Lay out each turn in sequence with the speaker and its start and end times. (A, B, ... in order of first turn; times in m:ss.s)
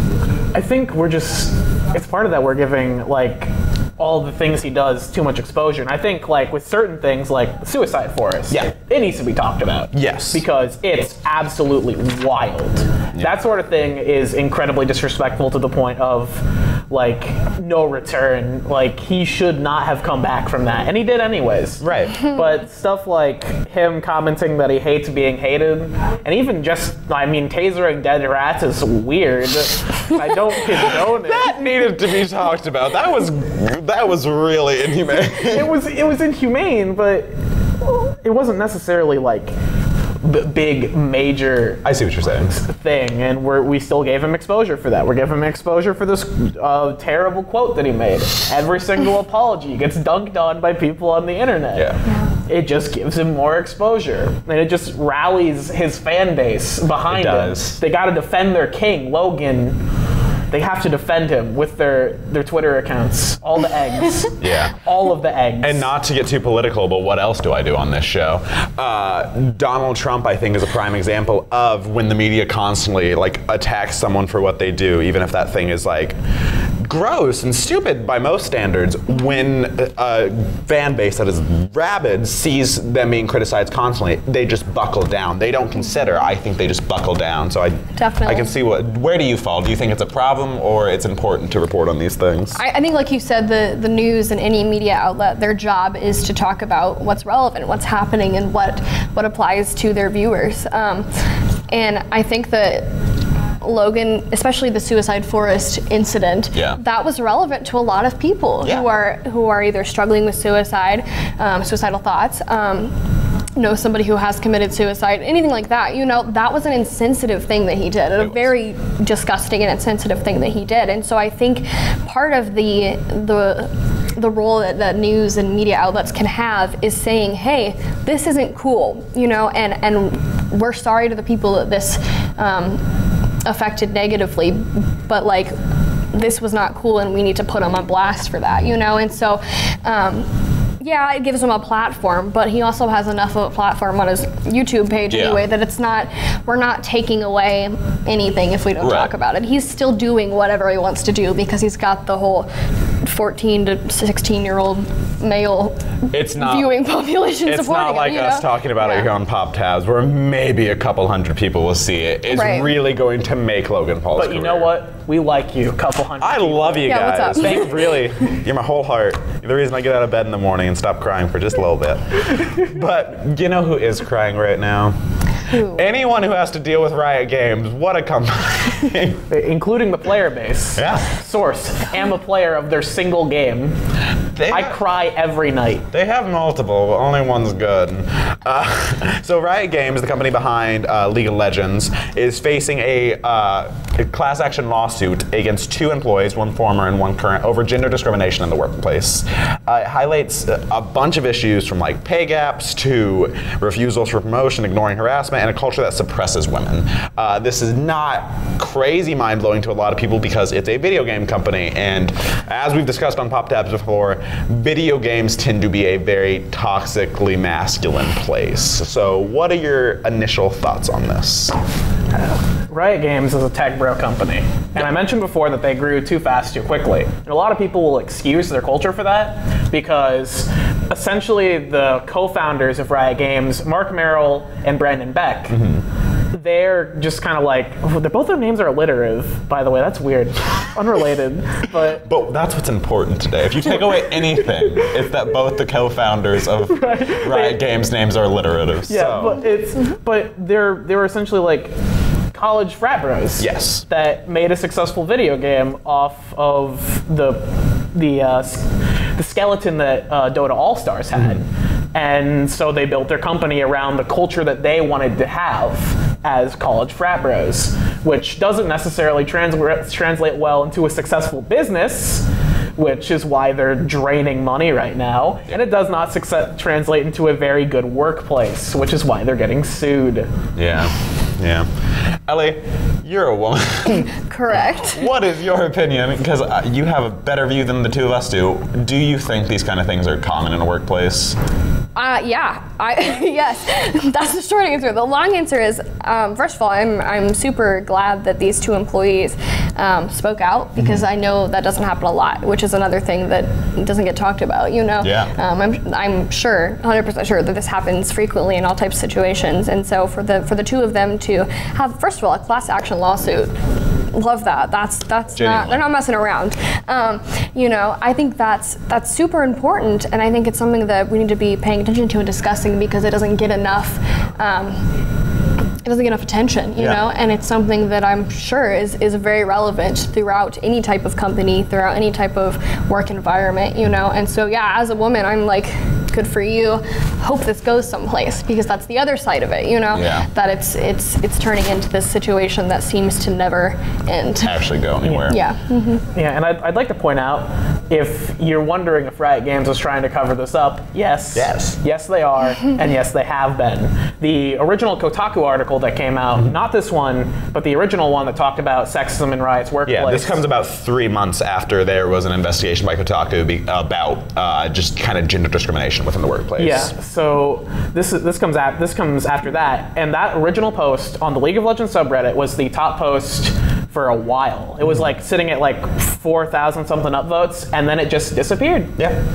0:00.5-0:31.6 A
0:09.9-0:10.4 B
0:21.8-0:22.3 B
0:30.9-0:35.7 B
0:35.1-0:39.5 A
0:40.2-0:41.8 A
0:41.8-0:42.6 B
0:42.5-0:51.9 A
0:51.7-0:52.0 B
0:52.5-0:59.8 A
0:57.1-0:57.8 B
1:00.5-1:05.9 A
1:04.4-1:04.8 B
1:05.6-1:16.1 B
1:16.8-1:32.6 B
1:28.0-1:28.5 C
1:32.5-1:41.1 C
1:41.7-1:42.9 C
1:43.6-1:52.9 C
1:46.5-1:46.8 B
1:53.6-2:12.8 C
1:58.2-1:58.5 B
2:13.4-2:15.5 C
2:16.1-2:20.3 C
2:20.8-2:32.5 C
2:25.1-2:25.4 B
2:28.8-2:29.1 B
2:33.0-2:39.1 C
2:36.1-2:36.7 B
2:37.4-2:44.7 B
2:42.3-2:42.7 C
2:44.2-2:48.1 A
2:46.2-2:54.9 B
2:46.8-2:47.7 C
2:55.5-2:55.8 C
2:55.5-2:59.2 B
2:59.3-3:03.7 A
3:00.8-3:01.1 B
3:04.4-3:04.8 B
3:04.5-3:05.8 A
3:05.9-3:41.6 B
3:42.2-3:55.6 A
3:55.5-3:55.8 B
3:56.3-4:02.0 A
4:02.0-4:09.4 B
4:06.7-4:07.6 A
4:08.9-4:11.7 A
4:12.3-4:17.4 A
4:13.4-4:13.8 B
4:17.9-4:40.3 A
4:21.1-4:21.4 B
4:40.6-4:41.7 B
4:42.3-4:51.4 B
4:44.0-4:45.1 C
4:52.0-5:13.5 C
5:00.8-5:01.0 B
5:05.0-5:05.3 B
5:14.1-5:24.8 C
5:15.3-5:15.8 B
5:25.8-5:44.6 C
5:39.9-5:40.3 B
5:44.4-5:45.4 B
5:45.0-5:45.3 A
5:45.3-5:46.0 C
5:46.1-6:00.4 A
5:51.3-5:51.8 B
5:59.8-6:06.9 B
6:06.6-6:18.9 A